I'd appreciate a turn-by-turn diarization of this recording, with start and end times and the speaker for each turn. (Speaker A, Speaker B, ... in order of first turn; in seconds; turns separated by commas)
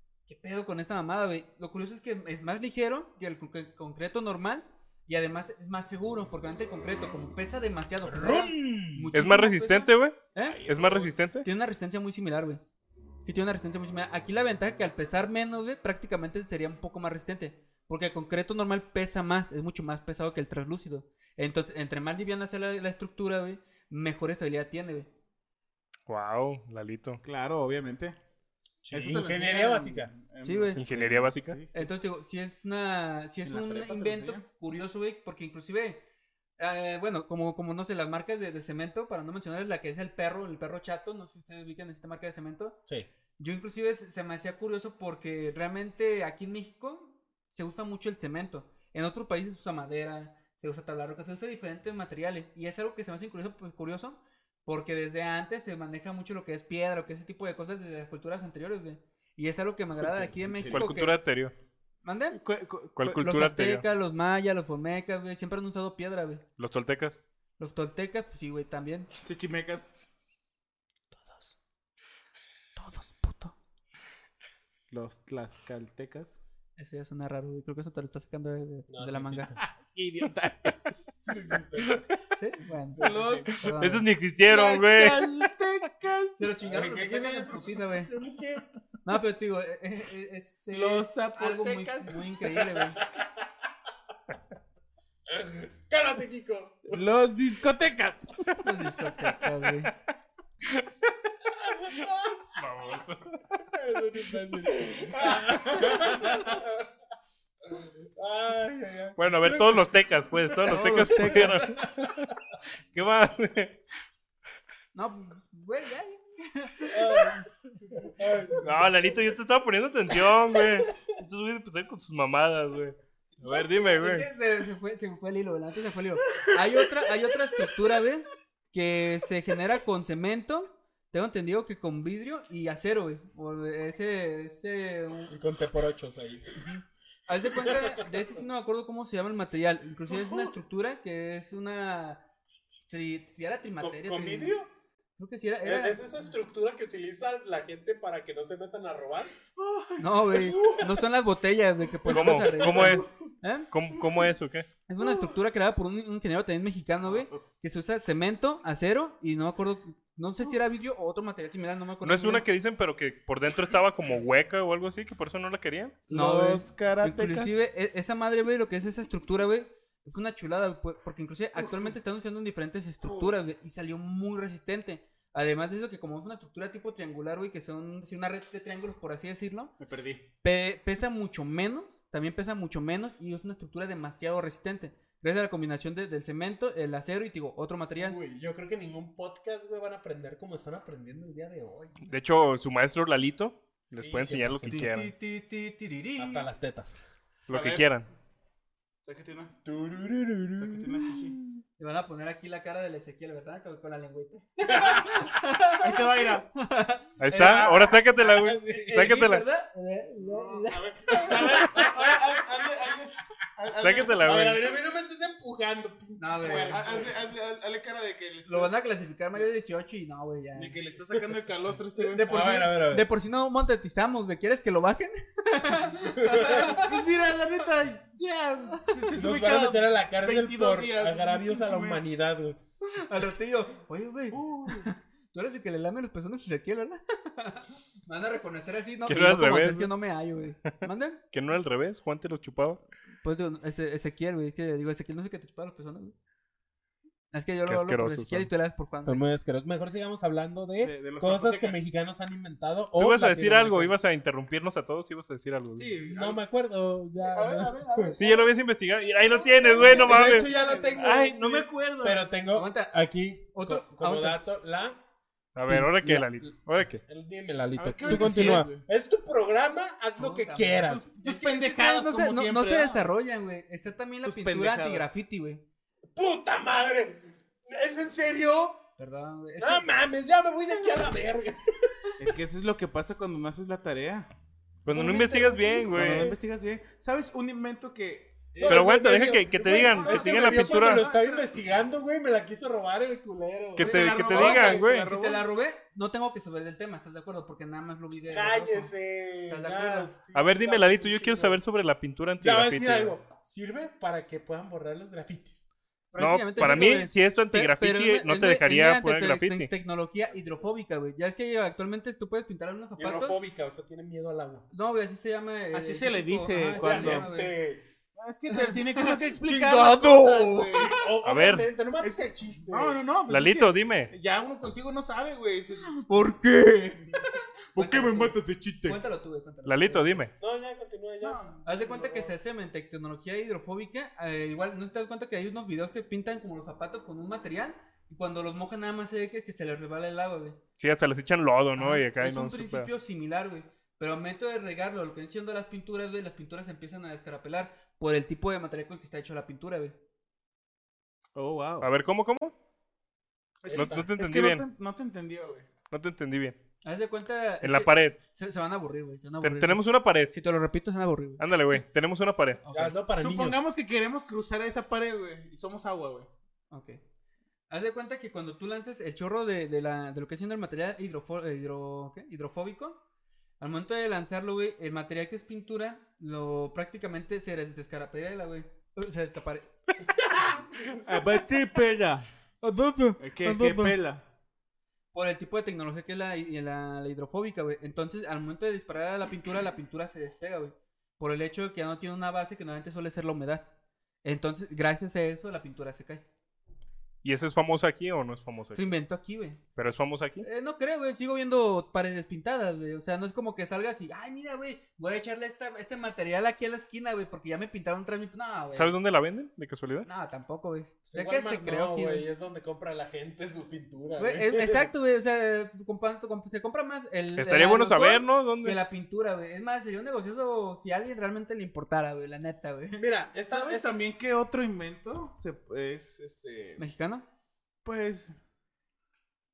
Speaker A: 0.3-10.6, Speaker B: 8.0-9.1, Speaker C: 9.1-11.5, Speaker D: 10.4-11.2, Speaker A: 11.4-12.6, Speaker A: 13.2-25.1, Speaker C: 26.1-27.2, Speaker D: 27.2-28.1, Speaker B: 28.8-30.1, Speaker D: 28.9-31.9, Speaker A: 30.4-30.8, Speaker C: 30.8-31.6, Speaker A: 31.7-36.0, Speaker D: 33.4-34.4, Speaker A: 36.6-42.8, Speaker A: 43.4-61.2, Speaker D: 60.5-60.8, Speaker C: 60.6-61.5, Speaker A: 62.0-62.4, Speaker D: 62.3-63.3, Speaker C: 63.0-63.8, Speaker A: 63.2-66.4, Speaker C: 66.6-67.2, Speaker A: 67.6-69.1, Speaker D: 69.2-69.9, Speaker A: 71.1-71.5, Speaker A: 72.8-73.5, Speaker D: 74.9-76.4, Speaker A: 76.8-79.5, Speaker B: 78.9-79.6, Speaker D: 79.8-80.8, Speaker B: 81.2-82.0, Speaker A: 82.4-84.0, Speaker B: 82.9-83.5, Speaker D: 83.0-83.5, Speaker C: 83.8-85.3, Speaker D: 84.4-86.4, Speaker A: 86.4-88.1, Speaker B: 86.6-88.7, Speaker A: 89.0-93.0, Speaker D: 90.7-92.3, Speaker B: 92.6-93.5, Speaker B: 95.3-97.0, Speaker D: 96.9-98.5, Speaker A: 98.6-99.9, Speaker B: 101.5-102.4, Speaker C: 101.9-103.5, Speaker B: 103.6-106.8, Speaker D: 105.1-106.6, Speaker B: 107.7-112.1, Speaker C: 109.2-112.3, Speaker A: 110.7-111.8, Speaker C: 112.9-113.8, Speaker A: 114.9-117.4, Speaker B: 116.9-118.9, Speaker C: 118.6-124.3, Speaker A: 123.5-135.3, Speaker B: 135.3-136.6, Speaker A: 136.6-142.2, Speaker B: 137.5-138.3, Speaker D: 140.1-140.5, Speaker A: 142.9-144.5, Speaker B: 143.8-144.7, Speaker A: 145.2-146.0, Speaker B: 145.6-149.3, Speaker D: 149.5-150.8, Speaker A: 150.0-153.7, Speaker B: 150.3-150.9, Speaker C: 152.1-153.1, Speaker D: 152.6-153.1, Speaker C: 153.7-154.7, Speaker A: 154.9-162.4, Speaker C: 162.0-166.0, Speaker D: 166.1-167.6, Speaker A: 166.1-179.7, Speaker D: 173.0-173.3, Speaker D: 179.8-180.2, Speaker A: 180.4-188.2, Speaker B: 187.9-192.0, Speaker C: 192.1-195.1, Speaker B: 193.9-194.9, Speaker A: 194.7-196.5, Speaker B: 196.2-197.0, Speaker C: 197.5-198.1, Speaker D: 197.5-197.9, Speaker D: 199.0-199.5, Speaker B: 199.6-201.6, Speaker D: 200.6-201.3, Speaker A: 201.8-205.9, Speaker B: 204.7-205.5, Speaker D: 205.8-206.5, Speaker A: 206.5-211.6, Speaker C: 207.2-209.4, Speaker B: 207.3-209.2, Speaker D: 210.2-214.2, Speaker B: 211.2-212.4, Speaker C: 213.8-214.6, Speaker B: 214.1-217.2, Speaker A: 216.2-216.9, Speaker D: 216.7-218.8, Speaker A: 218.5-220.8, Speaker D: 220.5-222.5, Speaker A: 222.0-226.9, Speaker B: 222.3-223.1, Speaker B: 226.0-226.7, Speaker D: 226.5-232.0, Speaker B: 229.1-232.6, Speaker A: 232.9-241.2, Speaker D: 234.3-234.9, Speaker C: 239.1-239.9, Speaker C: 241.3-242.8, Speaker A: 243.2-246.1, Speaker A: 247.3-249.2, Speaker C: 247.7-248.5, Speaker B: 249.0-253.9, Speaker D: 250.8-251.8, Speaker C: 253.0-255.9, Speaker D: 255.7-256.4, Speaker B: 256.0-258.1, Speaker D: 257.2-258.5, Speaker C: 258.2-262.2, Speaker D: 259.1-261.2, Speaker B: 259.6-265.0, Speaker A: 262.5-263.0, Speaker A: 263.5-264.4, Speaker C: 265.5-267.0, Speaker B: 265.7-271.1, Speaker D: 267.8-268.8, Speaker A: 268.1-268.6, Speaker A: 270.2-275.6, Speaker D: 270.8-273.1, Speaker D: 274.2-275.1, Speaker B: 276.1-278.8, Speaker A: 279.0-279.9, Speaker B: 279.6-282.2, Speaker D: 282.2-284.3, Speaker C: 284.8-286.3, Speaker D: 284.9-289.0, Speaker B: 285.6-286.4, Speaker B: 288.6-294.1, Speaker C: 288.6-291.0, Speaker D: 289.6-291.5, Speaker C: 293.8-295.1, Speaker D: 293.8-295.4, Speaker A: 294.1-298.9, Speaker B: 298.3-301.6, Speaker A: 299.5-300.1, Speaker C: 300.3-303.1, Speaker B: 302.4-305.7, Speaker A: 306.1-313.4, Speaker C: 306.2-309.7, Speaker B: 310.3-310.7, Speaker B: 313.0-314.7, Speaker A: 314.7-317.5, Speaker D: 315.7-317.3, Speaker B: 316.7-317.8, Speaker D: 318.1-320.9, Speaker A: 318.5-321.0, Speaker B: 320.8-323.0, Speaker C: 321.2-321.7, Speaker D: 322.0-326.0, Speaker C: 323.3-324.1, Speaker A: 326.0-330.2, Speaker D: 327.7-329.0, Speaker C: 329.6-330.3, Speaker B: 330.4-332.3, Speaker D: 331.2-331.9, Speaker A: 331.6-340.6, Speaker C: 340.8-342.9, Speaker A: 341.8-349.9, Speaker D: 351.4-351.9, Speaker C: 351.8-352.5, Speaker D: 353.6-355.7, Speaker B: 353.7-354.1, Speaker C: 353.7-354.6, Speaker C: 355.9-356.6, Speaker A: 356.8-361.4, Speaker C: 357.6-358.2, Speaker C: 359.4-360.3, Speaker C: 361.4-362.6, Speaker A: 362.6-363.0, Speaker B: 362.7-363.6, Speaker D: 363.2-366.3, Speaker A: 366.7-367.0, Speaker A: 367.7-373.0, Speaker A: 373.6-379.7, Speaker D: 381.0-382.3, Speaker A: 382.6-384.0, Speaker D: 383.2-384.3, Speaker A: 385.1-393.7, Speaker A: 394.2-396.2, Speaker C: 397.2-398.9, Speaker A: 398.7-399.6, Speaker C: 399.8-400.5, Speaker A: 400.4-408.9, Speaker C: 408.7-410.1, Speaker A: 410.0-412.2, Speaker B: 411.0-414.9, Speaker A: 414.2-423.0, Speaker C: 417.4-418.8, Speaker B: 422.9-423.9, Speaker D: 423.5-426.8, Speaker A: 426.8-427.2, Speaker D: 427.8-428.3